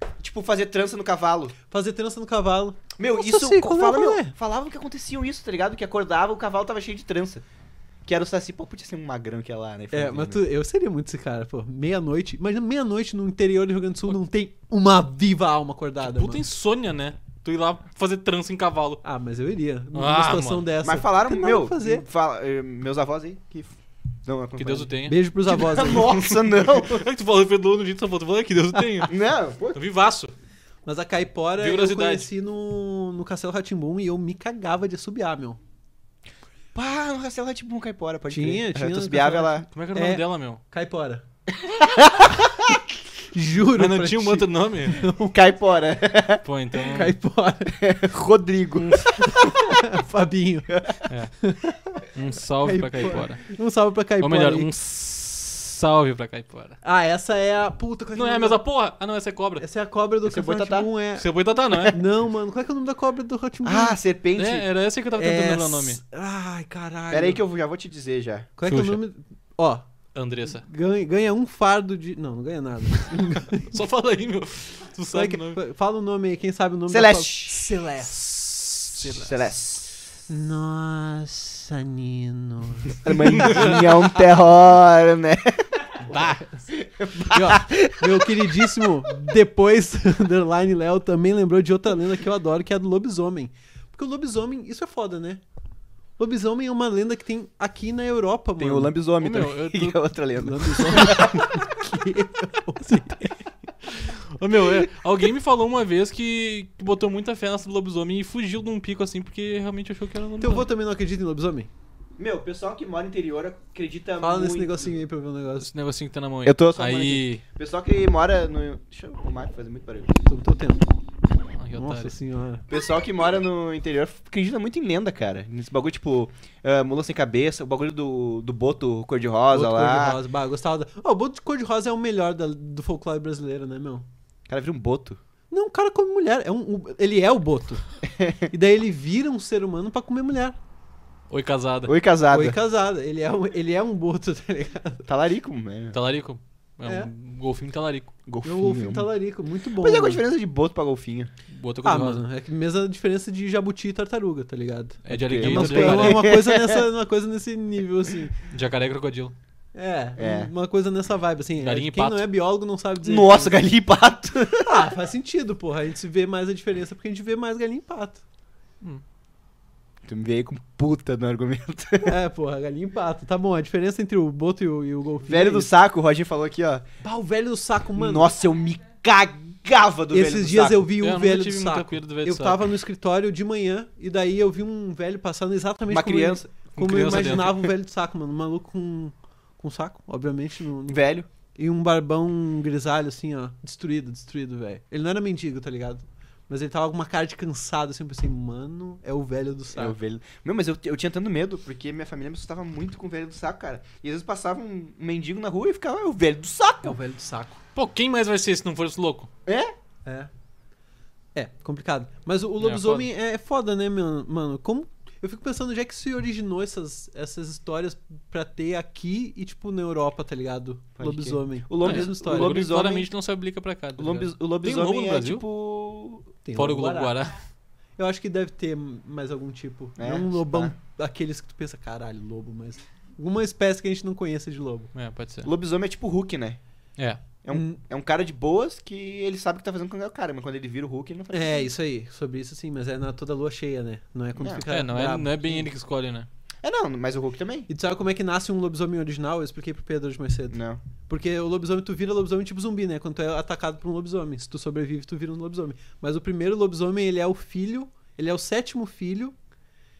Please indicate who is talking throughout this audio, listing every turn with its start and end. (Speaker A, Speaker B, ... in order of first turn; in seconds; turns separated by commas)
Speaker A: 0.2-1.5, Speaker B: 1.7-4.3, Speaker A: 3.0-7.4, Speaker A: 8.1-10.4, Speaker B: 9.9-16.4, Speaker C: 16.0-19.0, Speaker B: 19.0-22.0, Speaker C: 19.9-20.7, Speaker A: 20.8-24.9, Speaker C: 24.6-25.2, Speaker B: 25.0-26.1, Speaker A: 25.4-27.0, Speaker C: 25.9-29.1, Speaker A: 29.1-29.8, Speaker C: 29.7-30.3, Speaker B: 30.9-35.6, Speaker C: 31.6-32.3, Speaker A: 36.7-39.6, Speaker B: 38.3-41.2, Speaker C: 39.7-40.6, Speaker A: 41.5-42.8, Speaker B: 43.3-45.3, Speaker C: 43.7-45.0, Speaker A: 45.2-46.4, Speaker C: 46.4-47.1, Speaker B: 46.9-47.8, Speaker A: 47.7-49.4, Speaker B: 49.2-50.7, Speaker A: 50.7-51.0, Speaker B: 51.4-52.0, Speaker C: 52.1-53.4, Speaker B: 52.6-54.7, Speaker C: 54.2-56.8, Speaker B: 56.8-58.6, Speaker C: 58.1-59.6, Speaker B: 59.6-61.2, Speaker A: 60.2-60.9, Speaker C: 61.2-62.0, Speaker B: 61.9-64.0, Speaker A: 63.6-64.7, Speaker C: 64.3-66.0, Speaker B: 65.2-67.4, Speaker A: 67.1-68.5, Speaker B: 68.6-69.9, Speaker C: 68.7-69.0, Speaker C: 70.1-70.6, Speaker B: 70.5-73.7, Speaker C: 73.6-75.6, Speaker B: 75.1-79.0, Speaker A: 76.9-77.7, Speaker C: 78.9-79.4, Speaker A: 79.1-79.9, Speaker B: 80.3-83.8, Speaker A: 83.0-85.9, Speaker B: 86.1-86.5, Speaker A: 86.7-89.0, Speaker B: 87.3-95.4, Speaker B: 96.2-98.9, Speaker A: 98.6-101.6, Speaker C: 99.2-100.0, Speaker B: 100.4-103.4, Speaker C: 104.3-110.7, Speaker B: 110.4-111.7, Speaker A: 112.2-114.9, Speaker B: 114.2-115.7, Speaker C: 115.6-117.4, Speaker A: 116.4-120.2, Speaker B: 120.2-120.8, Speaker C: 121.6-122.1, Speaker B: 121.8-122.6, Speaker A: 122.7-130.2, Speaker B: 129.5-134.1, Speaker A: 134.5-135.2, Speaker B: 135.5-137.8, Speaker A: 138.1-138.5, Speaker B: 138.5-140.6, Speaker C: 141.3-141.9, Speaker A: 141.8-142.6, Speaker B: 142.3-145.1, Speaker A: 145.1-146.0, Speaker C: 145.9-148.1, Speaker A: 148.3-149.1, Speaker B: 148.4-150.2, Speaker A: 149.8-151.3, Speaker C: 151.5-152.2, Speaker B: 151.8-158.3, Speaker C: 155.1-156.3, Speaker A: 155.1-156.8, Speaker C: 158.5-159.3, Speaker B: 159.7-163.6, Speaker A: 160.2-160.5, Speaker C: 161.6-162.2, Speaker A: 163.0-164.9, Speaker B: 164.6-168.2, Speaker A: 170.0-172.2, Speaker B: 172.1-175.7, Speaker A: 175.3-176.8, Speaker B: 177.0-178.3, Speaker A: 177.9-180.9, Speaker B: 180.1-191.0, Speaker C: 181.0-182.6, Speaker A: 185.9-186.5, Speaker C: 186.8-187.7, Speaker A: 190.9-191.3, Speaker B: 191.6-200.0, Speaker A: 199.7-207.0, Speaker B: 206.8-207.6, Speaker C: 207.7-209.3, Speaker A: 209.4-209.7, Speaker B: 211.3-222.6, Speaker C: 212.6-213.1, Speaker A: 221.0-223.1, Speaker C: 221.8-225.4, Speaker A: 224.0-226.3, Speaker B: 226.4-227.2, Speaker C: 226.6-227.3, Speaker B: 228.0-234.9, Speaker A: 230.0-230.8, Speaker C: 234.9-235.5, Speaker A: 235.4-236.6, Speaker A: 237.4-241.7, Speaker B: 237.5-237.8, Speaker B: 241.3-245.7, Speaker A: 244.3-244.6, Speaker C: 244.7-246.3, Speaker A: 246.6-247.7, Speaker B: 247.7-259.3, Speaker A: 250.5-250.8